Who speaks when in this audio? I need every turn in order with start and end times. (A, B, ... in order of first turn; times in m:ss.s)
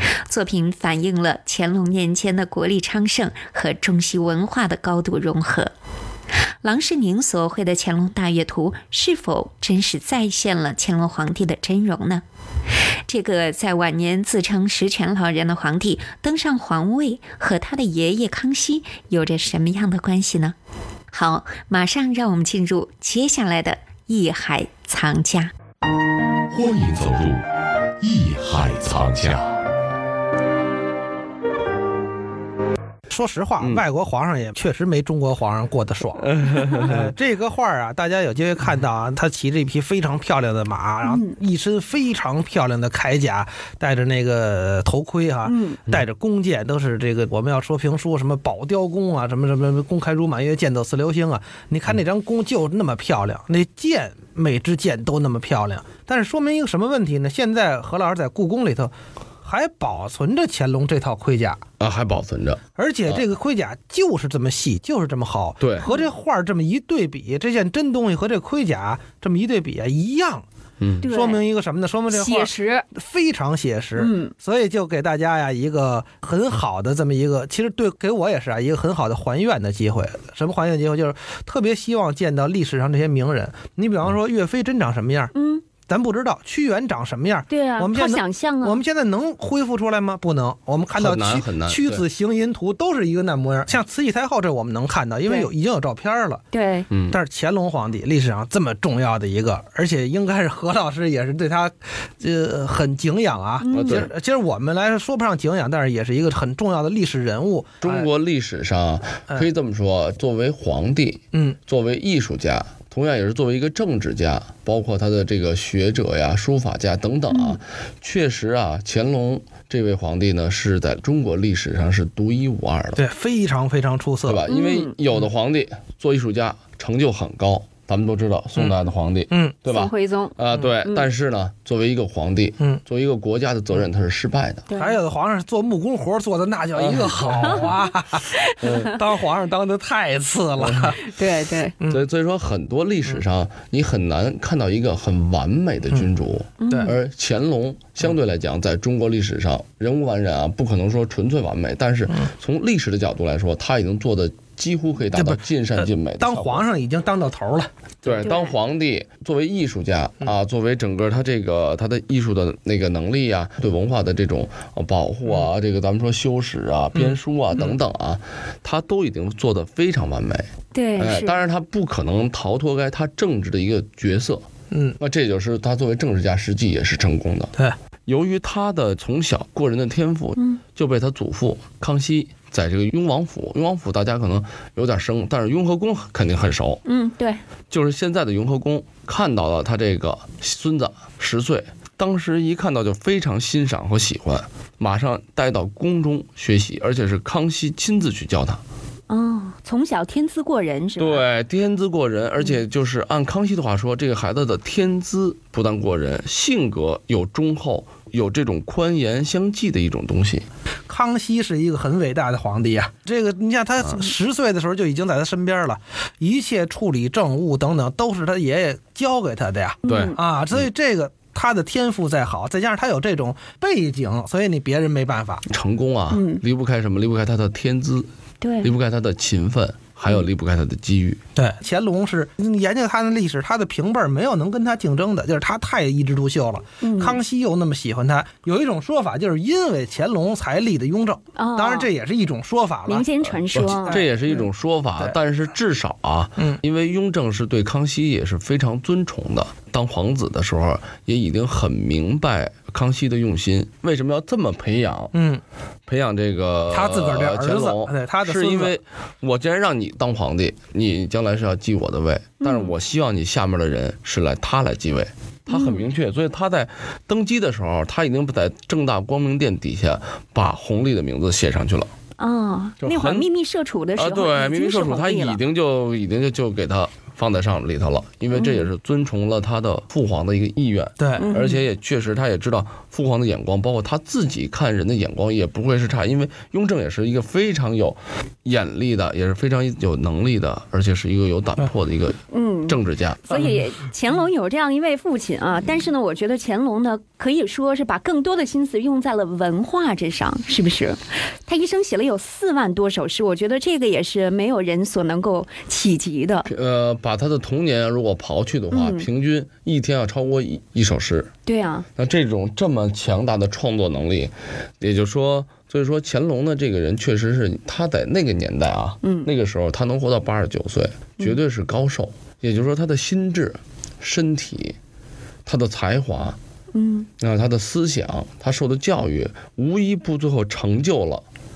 0:00.3-0:05.7 A
0:06.6-0:12.2 A
0:13.1-0:20.5 A
0:21.1-0:25.5 A
0:26.5-0:27.4 B
0:28.0-0:29.5 B
0:33.1-0:58.9 C
0:36.4-0:37.1 D
0:41.0-0:41.4 E
0:45.4-0:45.8 E
0:59.4-1:01.6 C
1:01.8-1:03.2 D
1:02.8-1:10.4 C
1:05.6-1:05.9 D
1:05.8-1:06.1 E
1:10.8-1:11.1 D
1:11.0-1:11.4 E
1:11.0-1:36.4 C
1:12.1-1:12.8 E
1:14.0-1:14.3 E
1:25.3-1:25.6 E
1:27.5-1:28.8 E
1:30.9-1:32.0 D
1:36.5-1:36.9 E
1:36.9-1:37.2 D
1:37.1-1:48.1 C
1:43.6-1:44.1 E
1:43.7-1:44.1 D
1:47.8-2:03.0 D
1:57.3-1:57.6 E
2:03.0-2:04.4 C
2:04.2-2:14.7 D
2:04.5-2:04.9 E
2:09.3-2:09.6 C
2:09.7-2:11.1 E
2:14.7-2:15.0 E
2:14.7-2:21.2 C
2:16.7-2:17.7 D
2:18.5-2:18.8 E
2:18.6-2:18.9 D
2:20.6-2:20.9 D
2:21.1-2:21.7 E
2:21.9-2:36.6 D
2:26.6-2:26.9 E
2:35.2-2:38.2 C
2:38.0-2:54.4 D
2:38.2-2:38.5 E
2:50.7-2:51.4 E
2:54.7-2:55.0 C
2:55.0-2:57.5 D
2:58.0-3:06.8 D
3:06.8-3:07.4 E
3:07.7-3:18.6 D
3:19.1-3:21.2 E
3:21.0-3:30.4 D
3:30.9-3:45.4 C
3:39.8-3:40.2 E
3:39.9-3:40.6 D
3:45.5-3:48.1 D
3:46.1-3:46.4 E
3:48.4-3:48.7 E
3:48.6-3:51.2 D
3:51.4-4:03.1 C
3:56.8-3:57.2 E
4:01.3-4:01.9 E
4:02.9-4:04.4 E
4:03.5-4:15.1 D
4:15.1-4:15.4 C
4:15.9-4:31.9 D
4:16.7-4:18.8 C
4:22.4-4:22.7 E
4:25.5-4:25.8 E
4:32.2-4:35.4 E
4:32.8-4:33.3 D
4:34.0-4:53.6 D
4:38.3-4:38.7 E
4:41.0-4:41.3 C
4:41.2-4:41.6 E
4:52.3-5:06.5 E
5:06.4-5:11.3 D
5:08.7-5:09.1 E
5:11.4-5:11.8 E
5:12.0-5:24.8 D
5:19.0-5:19.3 E
5:25.4-5:26.4 D
5:26.7-5:27.1 E
5:27.2-5:31.2 D